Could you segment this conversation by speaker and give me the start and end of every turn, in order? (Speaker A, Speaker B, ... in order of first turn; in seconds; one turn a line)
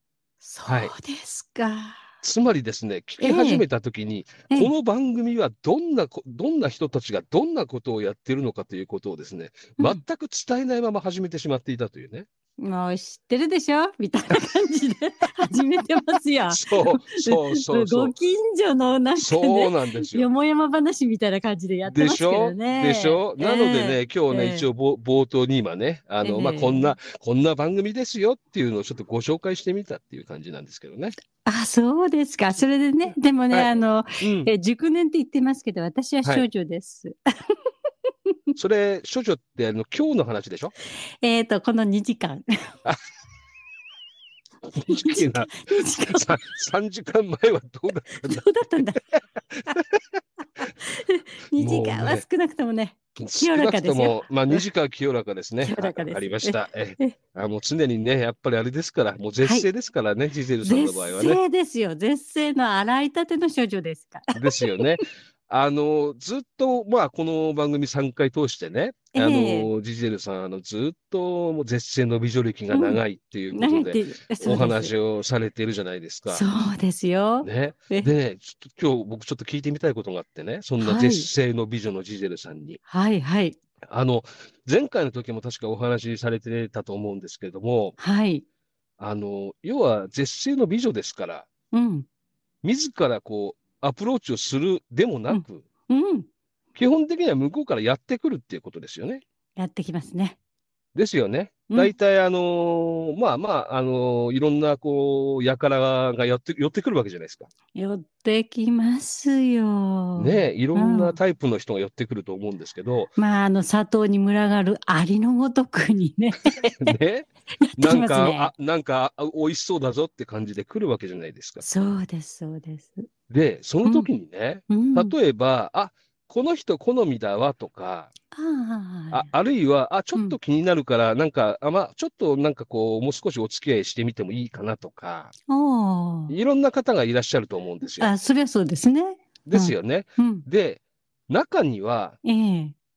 Speaker A: 0.4-2.0
Speaker B: 0.7-0.9
Speaker B: 2.2-12.3
Speaker A: 3.2-3.6
Speaker A: 12.6-24.6
Speaker B: 16.5-18.1
Speaker B: 19.2-20.3
Speaker B: 21.8-31.1
Speaker A: 26.2-26.9
Speaker A: 31.4-37.2
Speaker B: 33.5-34.5
Speaker B: 38.6-40.7
Speaker A: 41.2-42.7
Speaker B: 44.7-48.4
Speaker A: 44.9-46.4
Speaker A: 48.2-49.0
Speaker B: 49.5-50.0
Speaker A: 50.8-54.6
Speaker B: 51.6-52.2
Speaker B: 53.2-61.4
Speaker A: 55.6-57.1
Speaker A: 59.4-59.7
Speaker A: 60.6-64.7
Speaker B: 64.3-76.5
Speaker A: 69.1-69.7
Speaker A: 72.7-73.0
Speaker A: 73.5-74.9
Speaker A: 76.3-78.1
Speaker B: 77.4-82.8
Speaker A: 80.8-81.3
Speaker A: 82.9-83.6
Speaker B: 83.8-88.0
Speaker A: 88.0-88.4
Speaker B: 89.0-91.5
Speaker A: 91.7-92.1
Speaker B: 92.6-95.7
Speaker A: 95.3-96.3
Speaker B: 96.8-99.2
Speaker A: 99.6-100.4
Speaker B: 100.9-107.5
Speaker A: 107.8-111.2
Speaker B: 110.2-113.1
Speaker A: 113.2-117.0
Speaker B: 116.8-121.6
Speaker A: 117.7-118.5
Speaker A: 121.6-123.1
Speaker B: 123.3-128.1
Speaker A: 124.7-125.2
Speaker A: 128.3-129.3
Speaker B: 129.1-135.3
Speaker A: 135.5-136.3
Speaker B: 136.3-138.1
Speaker A: 138.0-140.4
Speaker B: 139.4-142.2
Speaker A: 142.2-142.8